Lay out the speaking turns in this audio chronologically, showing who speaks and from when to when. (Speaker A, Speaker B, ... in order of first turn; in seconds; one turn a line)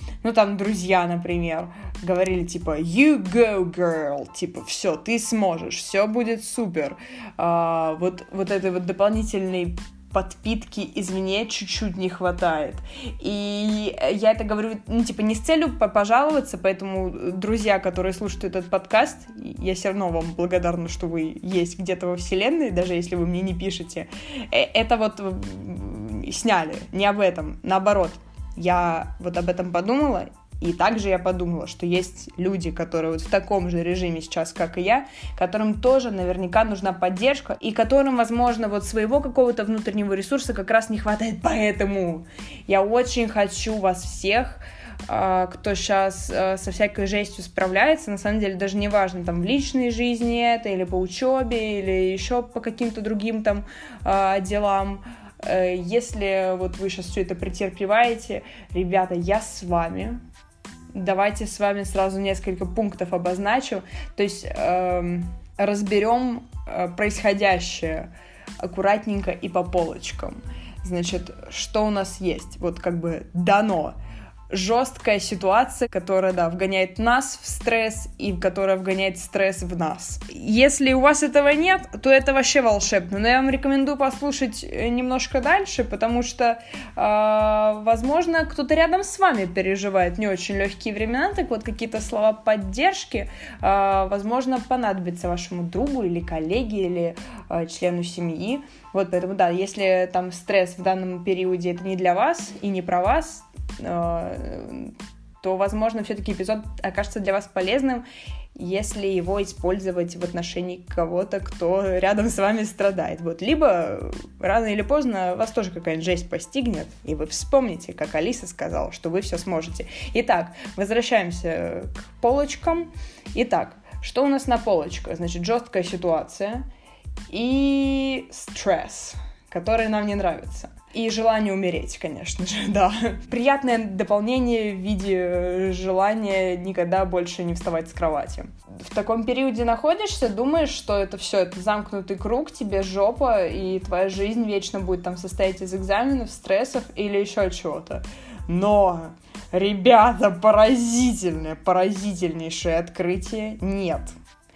Speaker A: 0.2-60.2
Speaker A: 60.9-68.1
Speaker A: 68.6-74.0
Speaker A: 74.5-108.0
Speaker A: 108.5-126.7
Speaker A: 127.3-154.1